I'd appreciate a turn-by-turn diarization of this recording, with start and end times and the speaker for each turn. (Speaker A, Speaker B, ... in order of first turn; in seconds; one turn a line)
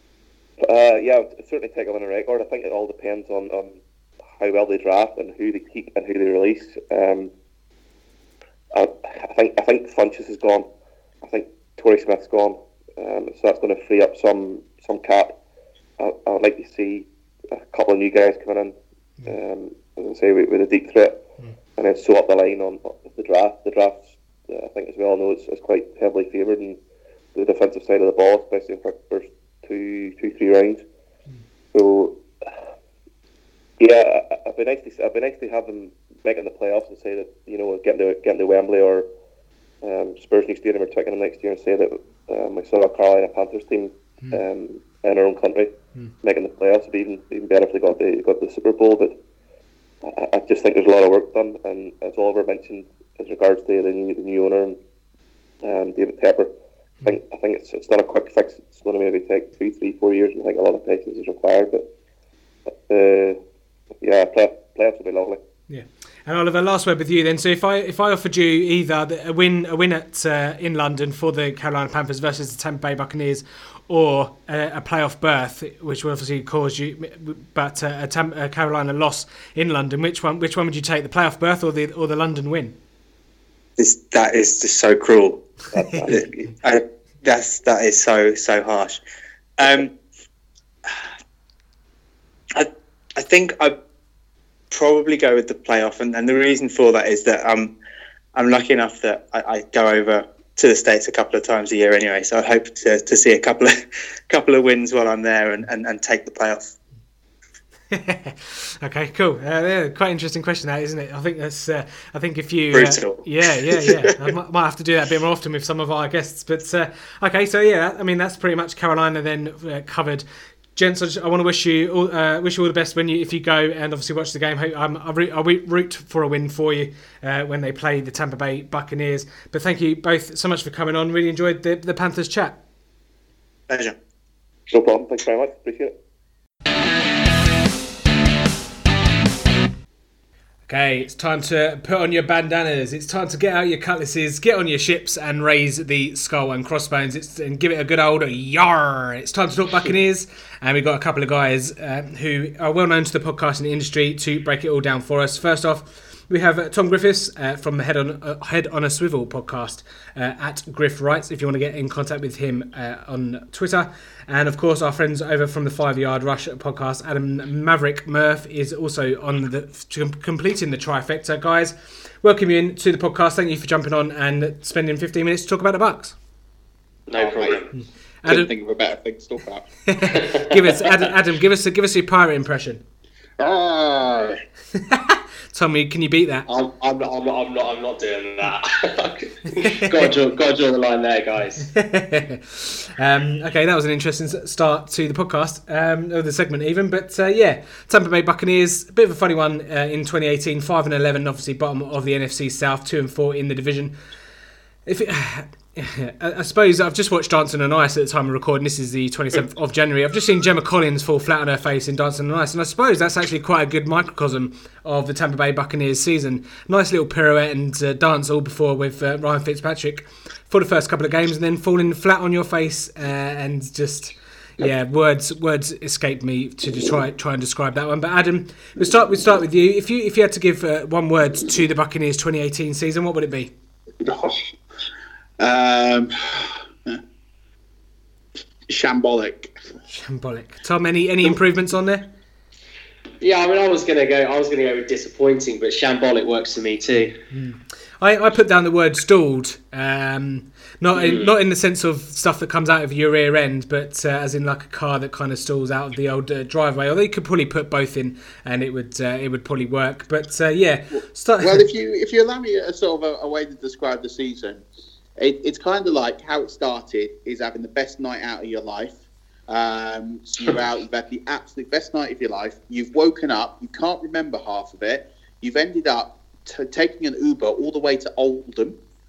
Speaker A: 0.6-3.8
Speaker A: 4.3-7.3
Speaker A: 8.7-10.7
Speaker A: 11.2-15.3
Speaker A: 16.0-21.2
Speaker A: 21.8-26.8
Speaker A: 27.3-30.8
Speaker A: 31.7-32.2
Speaker A: 33.8-39.0
Speaker A: 39.8-45.7
Speaker A: 46.2-49.1
Speaker A: 50.0-54.8
Speaker A: 55.6-56.5
Speaker A: 57.0-61.9
Speaker A: 62.9-63.4
Speaker A: 64.0-65.4
Speaker B: 65.7-82.7
Speaker C: 83.8-85.4
Speaker A: 85.7-86.3
Speaker C: 86.0-89.0
Speaker C: 89.6-89.9
Speaker C: 92.5-93.7
Speaker C: 94.7-97.7
Speaker C: 98.3-106.7
Speaker B: 107.9-132.6
Speaker C: 112.7-114.3
Speaker C: 133.7-133.9
Speaker A: 134.7-135.9
Speaker B: 140.7-176.1
Speaker D: 177.1-177.7
Speaker E: 177.2-177.6
Speaker B: 178.2-178.5
Speaker E: 178.2-179.7
Speaker B: 179.9-182.8
Speaker E: 183.4-184.4
Speaker B: 184.7-186.4
Speaker D: 186.5-191.7
Speaker B: 191.6-203.9
Speaker B: 204.8-233.5
Speaker E: 234.0-234.5
Speaker E: 235.4-237.0
Speaker E: 238.7-239.5
Speaker B: 239.9-242.0
Speaker D: 243.2-247.1
Speaker B: 246.9-261.6
Speaker D: 250.9-251.3
Speaker E: 261.4-264.6
Speaker E: 265.2-269.0
Speaker E: 269.5-278.8